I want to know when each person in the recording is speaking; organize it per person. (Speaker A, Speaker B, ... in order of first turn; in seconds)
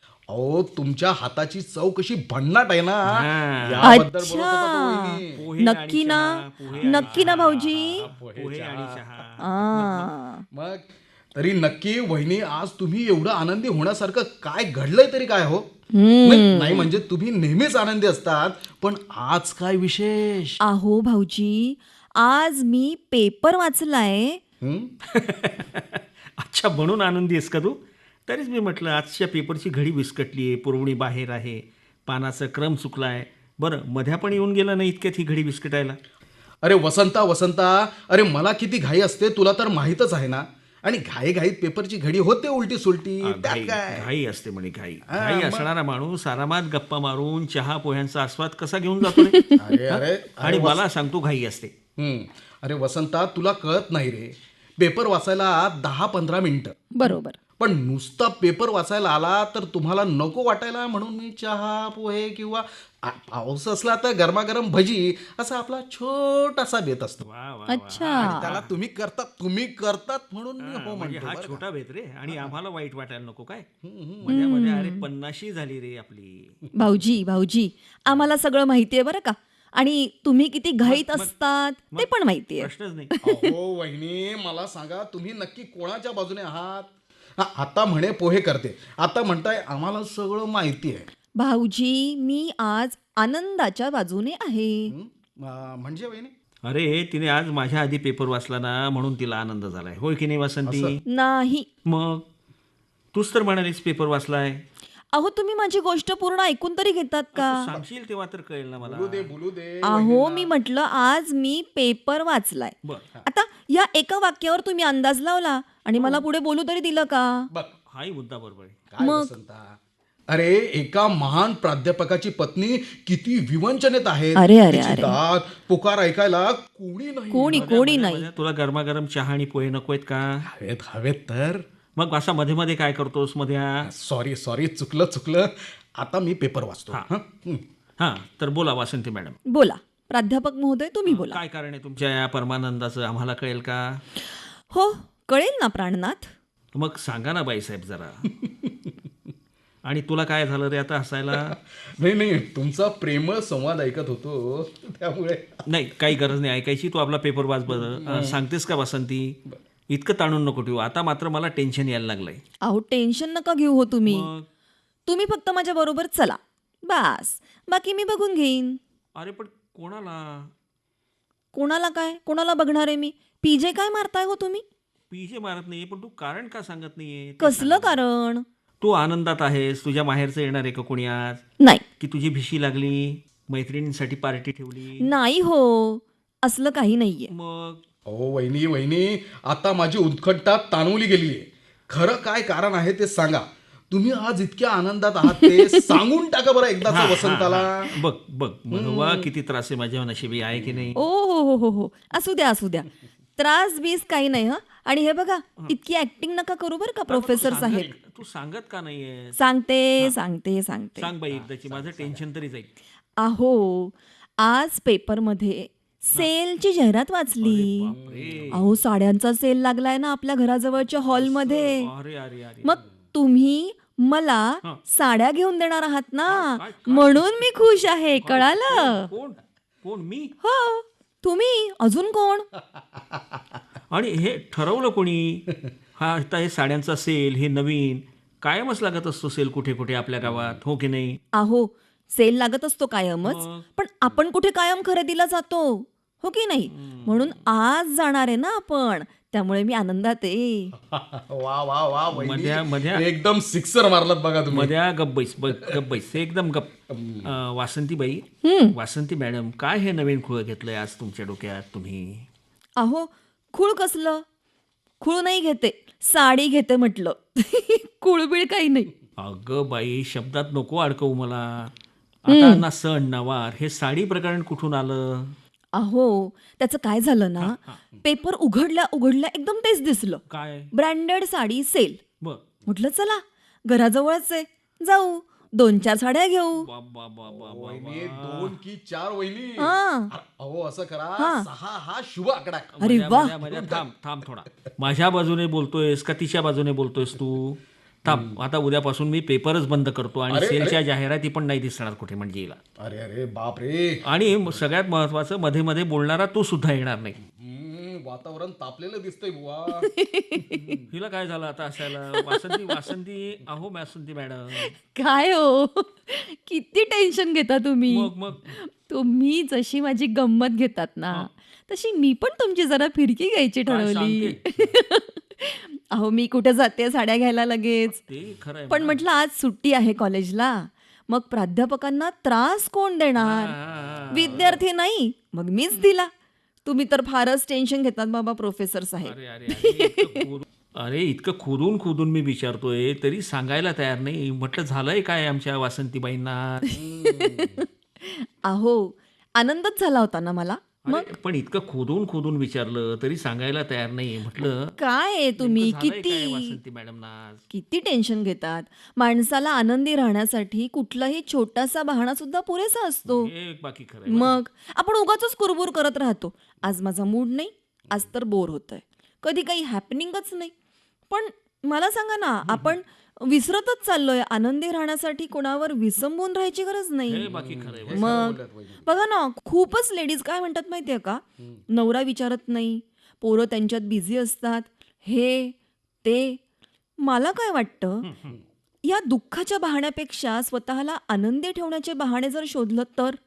Speaker A: 0.3-5.4, 7.0-7.3, 8.0-9.0, 10.5-15.7, 16.2-20.6, 24.6-24.9, 36.6-44.1, 45.1-45.7, 49.5-50.8, 52.0-56.8, 57.6-67.2, 68.1-71.6, 72.3-72.5, 73.8-74.3, 83.2-91.0, 94.9-96.3, 100.7-101.0, 108.8-110.5, 118.9-119.8, 120.3-127.7, 130.4-131.6, 133.8-137.6, 148.3-148.9, 151.3-155.6, 157.7-158.4, 188.1-198.0, 198.7-199.3, 200.6-200.9, 211.3-212.2, 217.9-218.7, 232.7-233.4, 240.2-240.6, 250.8-254.7, 255.5-255.8, 256.9-257.3, 287.3-292.8, 293.5-293.8, 298.1-298.3, 300.3-300.8, 302.8-304.0, 307.3-310.9, 346.7-347.7, 377.2-378.9
Speaker B: 3.1-4.0, 5.3-10.1, 25.1-36.0, 43.2-51.7, 67.2-68.7, 70.6-73.7, 74.2-76.6, 80.8-81.3, 81.9-83.1, 96.6-101.0, 101.8-102.2, 103.1-104.6, 107.3-109.3, 116.0-116.2, 117.9-118.8, 127.5-130.4, 132.0-133.9, 138.0-139.4, 141.1-144.0, 146.7-148.3, 149.8-151.6, 155.7-159.4, 159.9-162.4, 164.1-164.5, 169.2-170.5, 175.1-178.0, 178.8-181.4, 182.0-185.1, 187.3-187.8, 196.9-201.0, 207.1-209.3, 211.0-212.7, 217.4-218.6, 221.1-222.8, 226.3-227.2, 228.2-230.3, 233.9-241.2, 243.2-243.6, 246.7-247.3, 252.1-253.0, 254.5-256.7, 257.2-262.2, 269.2-271.7, 272.2-275.3, 277.4-277.8, 280.3-280.7, 286.6-288.5, 292.8-302.6, 304.0-307.2, 310.9-314.7, 317.9-318.4, 323.7-324.4, 328.1-329.0, 333.2-334.6, 339.0-346.7, 350.8-354.7, 355.4-357.4, 363.0-364.4, 377.1-378.3, 388.0-388.4
Speaker C: 3.8-8.1, 9.4-10.4, 15.9-16.9, 20.6-24.4, 49.1-49.6, 57.0-57.4, 67.7-68.4, 74.2-75.0, 76.7-83.5, 91.4-94.9, 101.1-101.7, 105.1-107.7, 109.8-117.5, 119.0-119.3, 124.3-125.2, 127.3-128.3, 139.5-141.4, 144.7-146.3, 162.6-164.3, 165.1-168.8, 171.5-174.6, 177.4-178.4, 185.0-187.3, 195.3-196.0, 200.9-207.9, 209.3-211.1, 213.2-217.9, 218.5-221.9, 222.6-229.1, 230.4-232.5, 241.3-250.7, 258.4-258.7, 262.8-264.2, 265.0-268.9, 272.3-272.6, 275.8-282.0, 282.7-286.7, 289.6-290.1, 291.2-291.5, 292.8-293.4, 309.8-310.7, 312.1-312.7, 314.6-328.0, 328.7-333.5, 334.1-336.1, 336.6-340.3, 347.0-351.1, 354.8-356.6, 357.5-363.3, 364.1-370.5, 371.1-377.2, 377.9-386.4, 387.0-388.1, 388.8-393.2